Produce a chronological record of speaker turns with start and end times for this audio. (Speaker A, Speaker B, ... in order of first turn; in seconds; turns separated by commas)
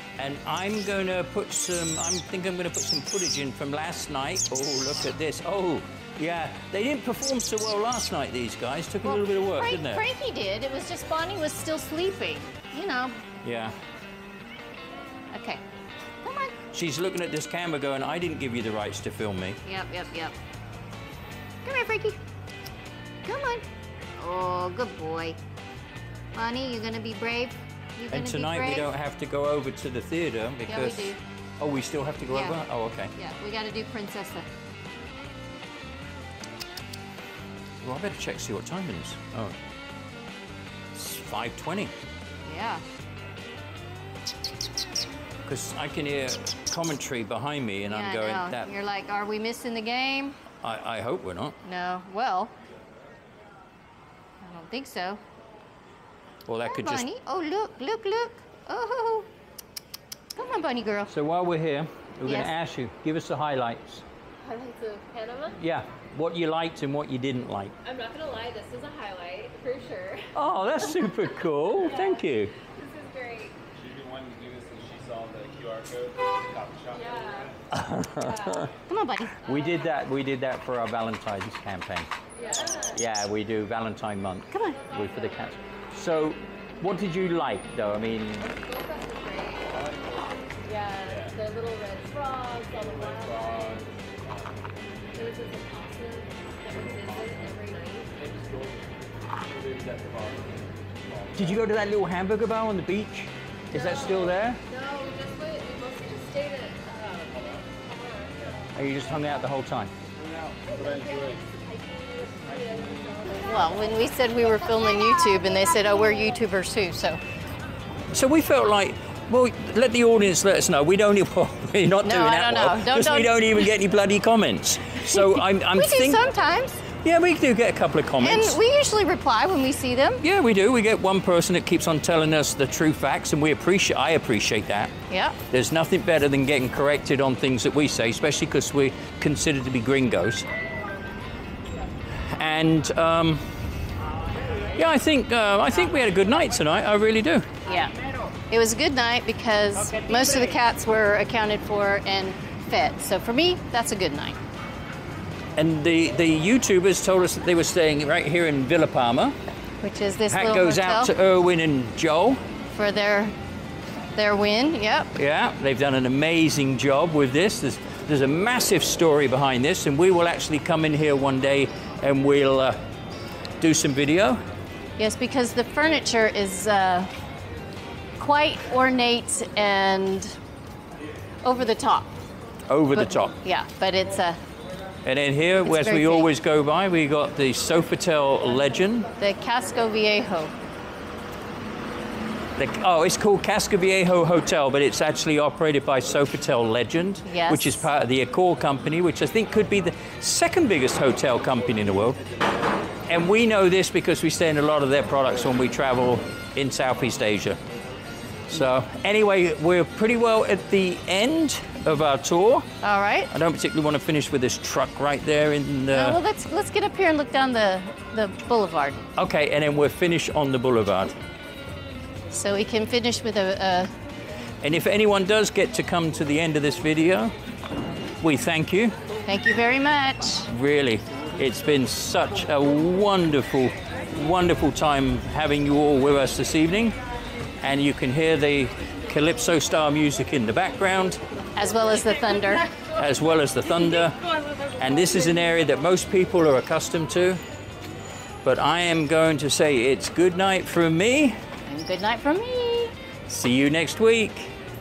Speaker A: 0.2-10.0, Speaker B: 9.0-13.2, Speaker A: 13.4-13.8, Speaker B: 15.3-15.6, Speaker B: 16.2-16.5, Speaker A: 16.7-19.6, Speaker B: 19.6-20.4, Speaker B: 21.6-22.2, Speaker B: 23.2-23.6, Speaker B: 24.2-25.4, Speaker B: 26.3-28.9, Speaker A: 28.1-33.1, Speaker B: 30.7-31.2, Speaker B: 32.3-32.6, Speaker B: 33.1-34.5, Speaker A: 37.8-39.6, Speaker A: 40.9-41.9, Speaker B: 42.5-42.8, Speaker A: 45.4-48.7, Speaker B: 47.9-50.4, Speaker A: 50.6-51.6, Speaker B: 51.6-52.5, Speaker B: 54.4-55.2, Speaker A: 56.5-57.0, Speaker B: 56.6-59.3, Speaker B: 60.4-61.1, Speaker A: 61.1-64.0, Speaker B: 62.2-62.5, Speaker C: 64.5-65.5, Speaker B: 64.6-65.5, Speaker A: 65.6-67.7, Speaker C: 67.8-70.3, Speaker A: 70.3-72.5, Speaker C: 71.5-73.5, Speaker D: 73.7-77.6, Speaker C: 76.9-77.5, Speaker A: 77.7-78.7, Speaker C: 78.2-78.7, Speaker B: 78.9-79.4, Speaker C: 79.4-79.9, Speaker A: 79.4-82.1, Speaker C: 82.3-83.0, Speaker A: 82.9-88.5, Speaker B: 84.5-84.8, Speaker C: 84.7-85.6, Speaker C: 88.4-89.8, Speaker D: 89.7-91.4, Speaker C: 90.7-93.8, Speaker D: 92.6-94.6, Speaker C: 95.1-98.1, Speaker D: 96.7-97.5, Speaker D: 98.0-101.7, Speaker A: 101.3-104.6, Speaker C: 103.7-108.6, Speaker D: 107.3-107.7, Speaker D: 108.3-108.7, Speaker A: 108.7-109.9, Speaker D: 110.1-111.4, Speaker C: 110.6-113.9, Speaker D: 112.4-113.4, Speaker B: 113.4-117.2, Speaker C: 114.8-115.4, Speaker A: 118.1-126.2, Speaker B: 122.0-123.6, Speaker B: 125.1-126.8, Speaker A: 126.9-128.6, Speaker B: 128.2-130.2, Speaker A: 130.2-134.9, Speaker B: 135.1-135.4, Speaker A: 135.5-140.5, Speaker A: 142.1-143.4, Speaker A: 144.6-147.5, Speaker B: 147.6-147.9, Speaker B: 148.5-154.4, Speaker A: 149.9-150.4, Speaker A: 155.6-159.3, Speaker B: 159.8-161.1, Speaker A: 160.3-162.4, Speaker B: 162.7-163.3, Speaker B: 164.1-165.1, Speaker A: 165.1-172.8, Speaker A: 173.6-174.4, Speaker B: 175.0-177.1, Speaker B: 178.2-180.4, Speaker B: 181.4-182.1, Speaker A: 182.7-183.3, Speaker B: 182.9-184.4, Speaker A: 185.0-189.1, Speaker B: 185.6-186.3, Speaker B: 189.2-190.5, Speaker A: 192.6-202.2, Speaker B: 197.2-197.9, Speaker A: 203.1-207.6, Speaker A: 208.5-212.7, Speaker B: 212.8-213.3, Speaker A: 213.3-216.2, Speaker B: 215.9-219.0, Speaker A: 219.2-221.2, Speaker B: 222.3-223.9, Speaker A: 224.6-227.3, Speaker A: 228.2-228.9, Speaker B: 229.2-230.5, Speaker A: 230.5-237.0, Speaker A: 237.6-241.2, Speaker B: 241.6-242.7, Speaker A: 242.8-244.2, Speaker A: 244.8-247.4, Speaker A: 248.4-251.4, Speaker B: 251.7-252.9, Speaker A: 253.3-254.5